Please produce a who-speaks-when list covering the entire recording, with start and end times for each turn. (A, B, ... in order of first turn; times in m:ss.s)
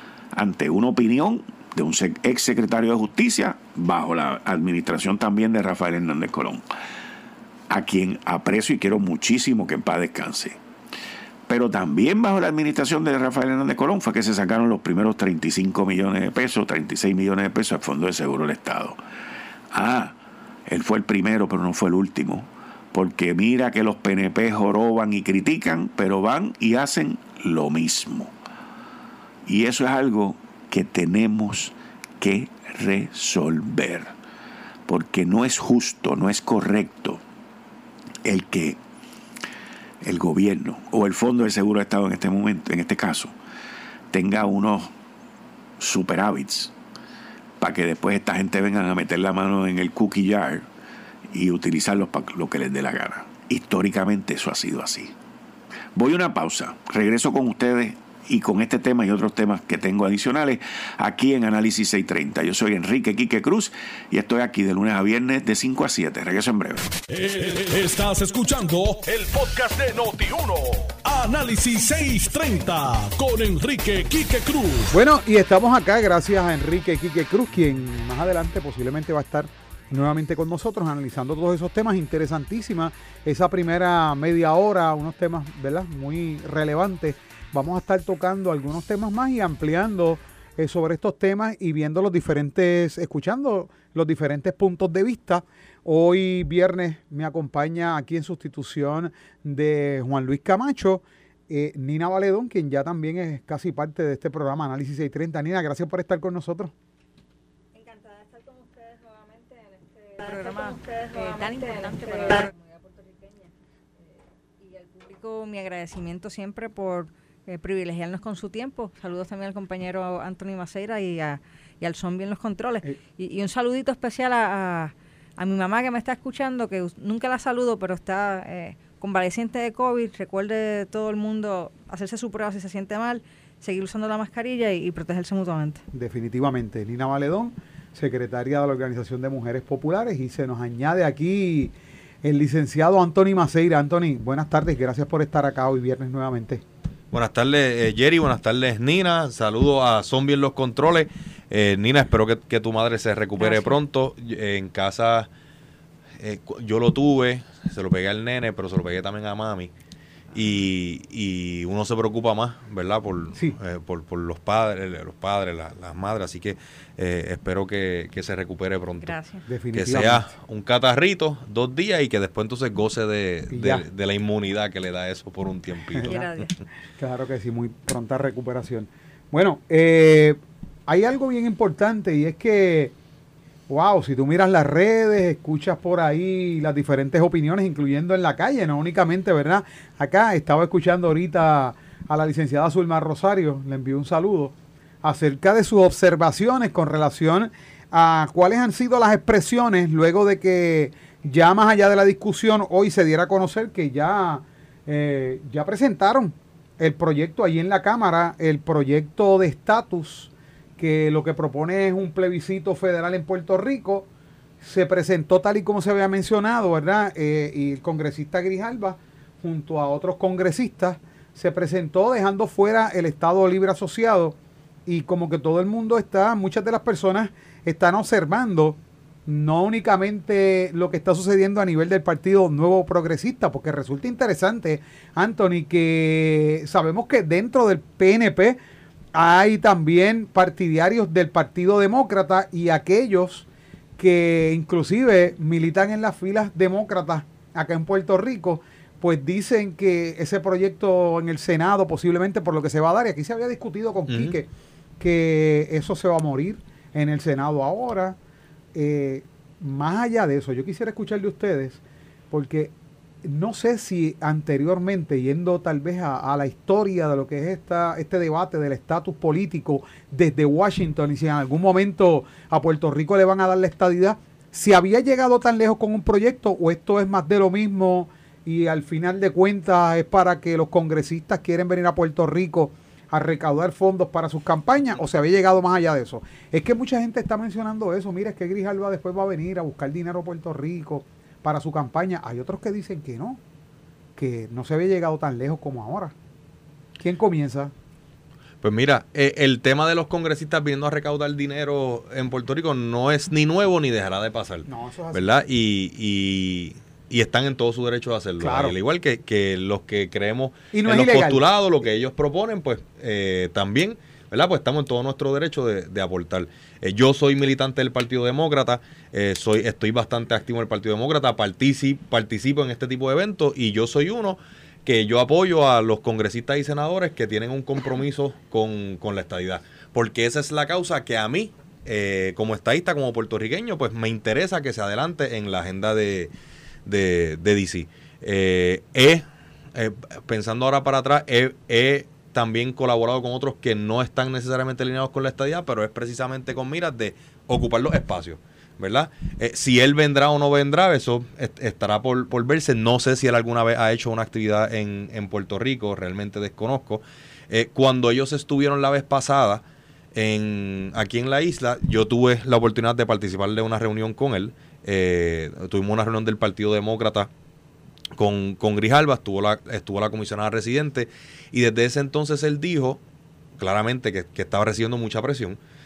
0:00.3-0:06.6 A
0:07.7-0:10.6 A
0:11.5-0:19.0 A
0:19.7-0:20.2 A
0:20.7-0:28.3 A
0:29.5-0:34.1 A
0:34.9-0:37.2 A
0:38.2-0:38.8 A
0:40.0-0:43.3 A
0:44.1-0:44.9 A
0:45.8-0:46.7 A
0:47.6-0:50.7 A
0:51.3-0:55.1 A
0:56.0-1:06.9 A
1:07.1-1:14.9 B
1:14.9-1:46.7 C
1:47.8-2:15.8 D
2:15.9-2:26.6 C
2:27.1-2:35.3 E
2:33.4-2:33.8 D
2:36.2-2:39.7 E
2:40.3-2:49.2 E
2:49.0-2:49.5 D
2:49.5-2:50.3 C
2:49.7-2:56.4 E
2:53.5-2:53.8 C
2:55.9-2:56.2 C
2:56.0-2:56.5 D
2:57.0-3:02.9 C
3:03.7-3:34.1 C
3:34.6-3:58.6 C
3:59.1-4:03.5 C
4:04.0-4:18.2 C
4:14.1-4:14.4 E
4:18.7-4:22.7 C
4:23.2-4:53.4 C
4:54.2-4:56.2 C
4:57.0-4:57.7 C
4:58.6-5:36.3 E
5:04.7-5:05.2 C
5:08.4-5:08.8 C
5:10.7-5:11.4 C
5:36.9-6:07.3 E
6:08.2-6:13.0 E
6:13.6-6:15.6 E